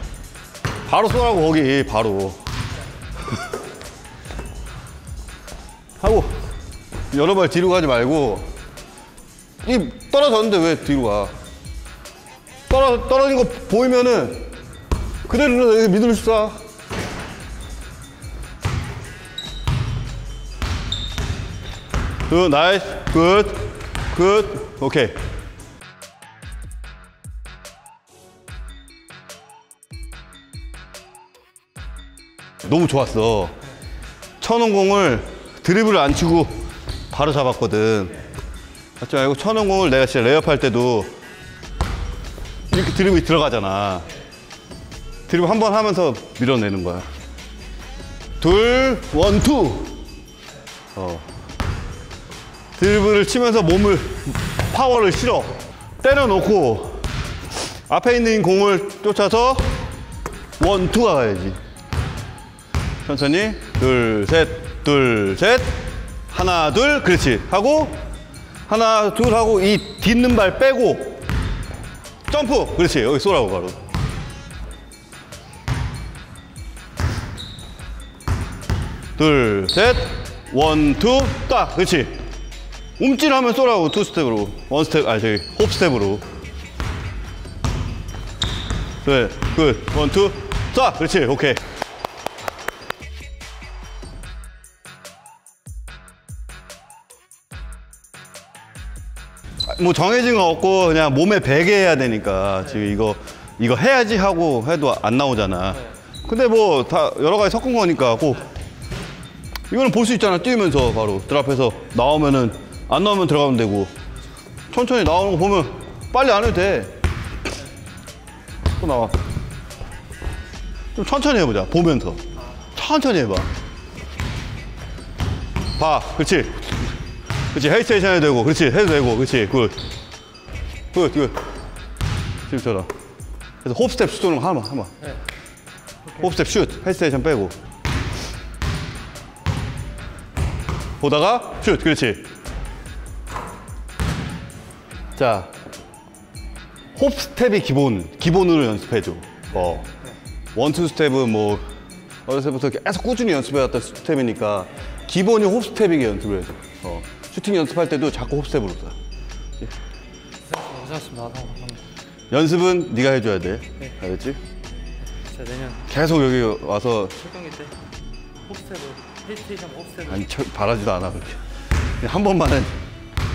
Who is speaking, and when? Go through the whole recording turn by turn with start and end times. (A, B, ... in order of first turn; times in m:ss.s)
0:00.9-0:02.4 A
0:06.0-0:06.4 A
0:07.1-0:08.5 A
0:09.6-0:11.3 A
0:12.7-0:14.5 A
0:15.2-0:16.6 A
0:22.3-0:25.2 A
0:32.6-0:33.6 A
0:34.4-0:38.2 A
0:39.0-0:41.2 A
0:42.7-0:44.1 A
0:45.3-0:47.1 A
0:48.4-0:50.0 A
0:51.0-0:51.3 A
0:52.8-0:57.1 A
0:57.9-0:59.8 A
1:00.6-1:01.6 A
1:03.1-1:08.0 A
1:08.7-1:11.2 A
1:12.3-1:13.8 A
1:19.2-1:22.2 A
1:23.0-1:26.2 A
1:29.0-1:31.6 A
1:39.7-1:48.5 A
1:49.7-1:53.9 A
1:54.7-1:56.9 A
1:58.8-1:59.2 A
2:01.0-2:02.2 A
2:02.7-2:03.5 A
2:05.8-2:06.9 A
2:07.5-2:09.8 A
2:10.9-2:11.4 A
2:12.5-2:12.9 A
2:13.6-2:14.9 A
2:16.2-2:17.6 A
2:21.0-2:22.3 A
2:25.2-2:25.5 A
2:27.0-2:29.9 A
2:30.6-2:31.6 A
2:32.3-2:39.0 A
2:40.5-2:41.8 B
2:42.3-2:44.4 A
2:45.3-2:45.8 B
2:45.8-2:47.3 A
2:48.5-2:49.9 B
2:49.9-2:51.4 A
2:52.0-2:52.8 A